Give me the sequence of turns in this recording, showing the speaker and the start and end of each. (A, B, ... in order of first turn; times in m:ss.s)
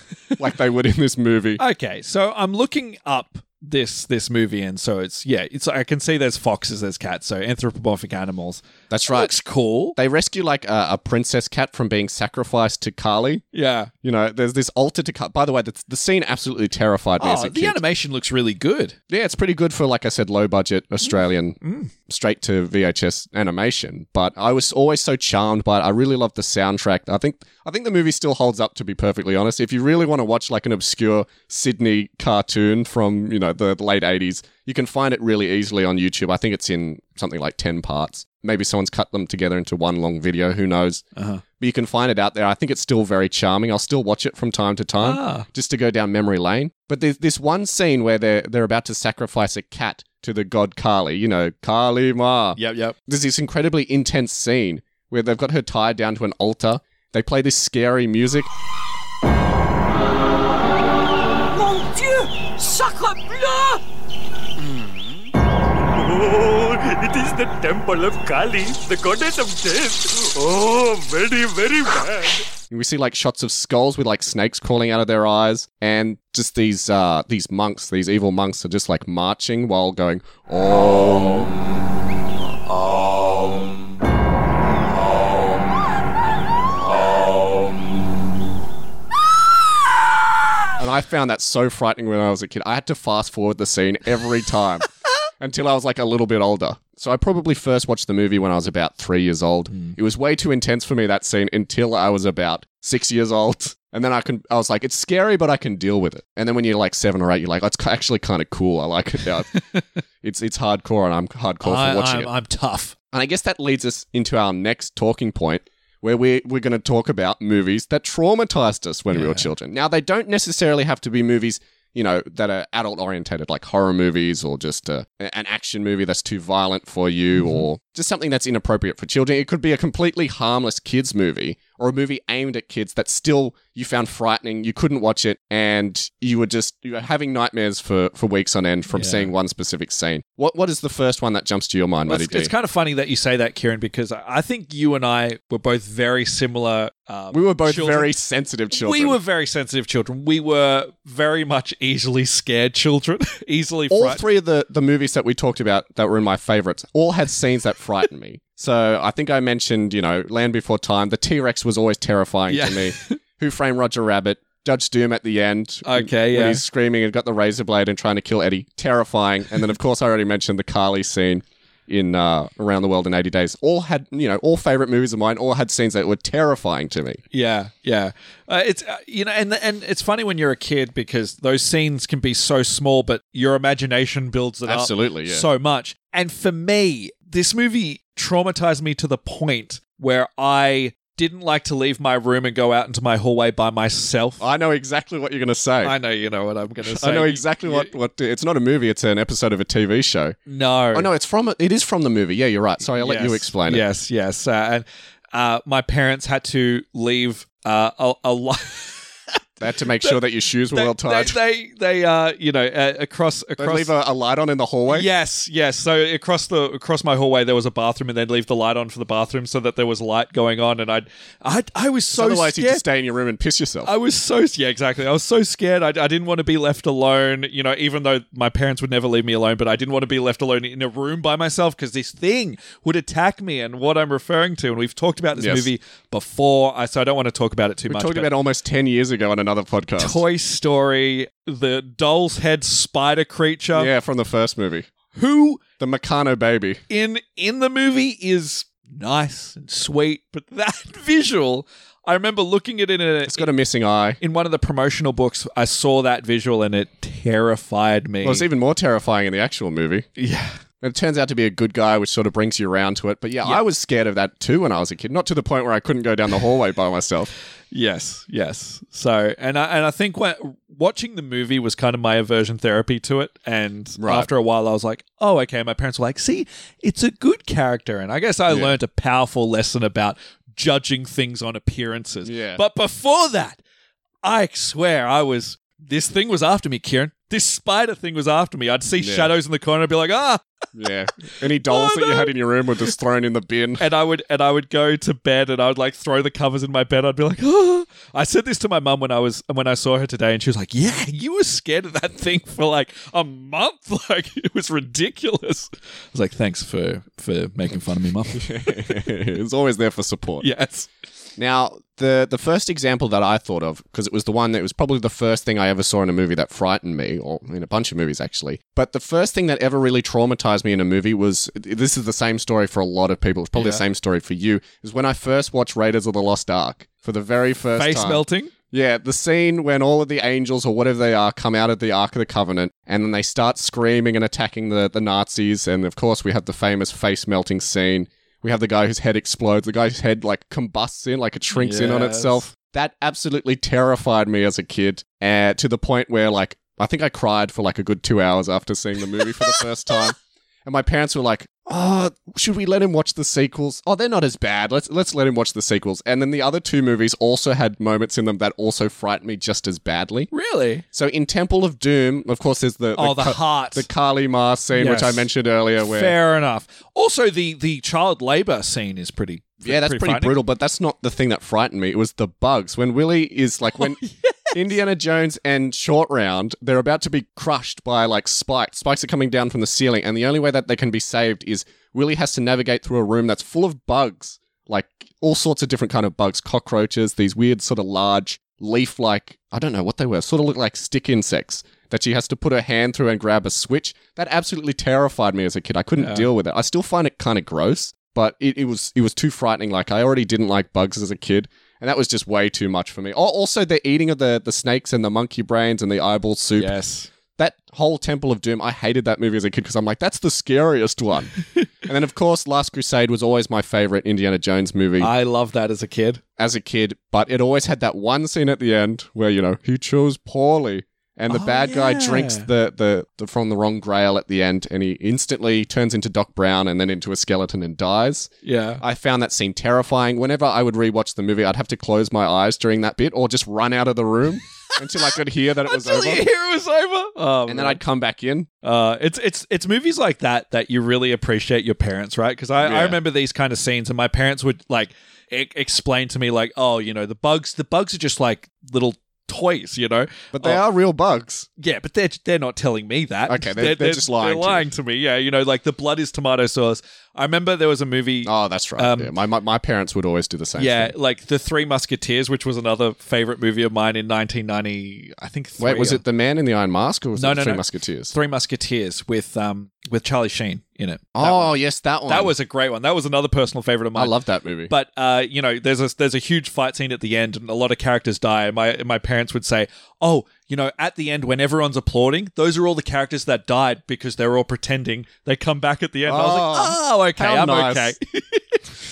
0:00.4-0:01.6 A
0:01.6-0:10.0 B
0:08.9-0:09.3 A
0:10.0-0:13.4 A
0:13.5-0:13.9 B
0:14.0-0:17.8 A
0:17.2-0:19.0 B
0:19.1-0:41.0 A
0:21.6-0:21.9 B
0:41.2-0:41.4 B
0:41.6-0:58.5 A
0:45.0-0:45.5 B
0:52.6-0:53.0 B
1:01.5-1:03.8 C
1:04.6-1:05.3 C
1:05.8-1:12.5 C
1:12.7-1:21.5 A
1:30.8-1:49.5 A
1:39.7-1:40.0 B
1:49.5-1:50.0 B
1:50.2-1:52.3 A
1:51.6-1:53.0 B
1:53.1-2:22.5 A
1:59.1-1:59.5 B
2:07.4-2:07.6 B
2:18.9-2:19.3 B
2:22.1-2:28.1 B
2:27.3-2:29.2 A
2:28.7-2:34.2 B
2:33.9-2:57.2 A
2:42.5-2:43.2 B
2:45.8-2:46.6 B
2:57.3-3:14.4 B
3:04.7-3:05.5 A
3:14.4-3:16.0 A
3:15.8-3:17.9 B
3:16.8-3:20.4 A
3:20.5-3:21.1 B
3:20.9-3:23.8 A
3:23.0-3:29.4 B
3:29.6-3:31.4 A
3:30.0-3:33.9 B
3:33.6-3:35.1 A
3:34.9-3:42.8 B
3:42.1-3:43.9 A
3:43.8-3:58.3 B
3:55.4-3:55.7 A
3:57.9-4:00.2 A
4:00.0-4:03.9 B
4:03.7-4:04.9 A
4:05.1-4:05.6 B
4:05.8-4:06.8 A
4:06.9-4:13.5 B
4:13.3-4:14.2 A
4:14.2-4:18.5 B
4:18.2-4:20.1 A
4:20.2-4:20.6 B
4:20.8-4:27.3 A
4:27.7-4:43.6 B
4:34.0-4:34.3 A
4:38.5-4:38.8 A
4:42.2-4:42.6 A
4:44.2-4:50.4 B
4:49.0-4:49.3 A
4:50.7-4:53.8 A
4:51.3-4:52.3 B
4:53.8-5:09.1 B
5:08.3-5:10.5 A
5:10.4-5:10.9 B
5:11.4-6:00.3 A
5:23.6-5:23.8 B
5:27.8-5:28.5 B
5:41.5-5:42.5 B
6:00.3-6:00.8 B
6:00.9-6:06.2 A
6:03.0-6:03.9 B
6:04.7-6:05.3 B
6:05.8-6:10.4 B
6:09.6-6:14.0 A
6:13.7-6:14.7 B
6:14.5-6:46.8 A
6:36.0-6:36.3 B
6:46.6-6:47.1 B
6:47.4-6:55.1 A
6:55.0-6:56.2 B
6:56.4-7:16.3 A
7:01.3-7:02.5 B
7:08.4-7:08.8 B
7:14.9-7:17.8 B
7:17.5-7:18.5 A
7:18.6-7:30.6 B
7:22.6-7:23.0 A
7:30.3-7:31.5 A
7:31.6-7:39.1 B
7:33.3-7:34.7 A
7:38.2-7:40.9 A
7:40.6-7:46.0 B
7:45.6-7:48.2 A
7:47.2-7:51.6 B
7:51.2-7:52.3 A
7:52.1-7:54.2 B
7:54.0-7:54.7 A
7:54.7-8:08.6 B
8:06.1-8:08.0 A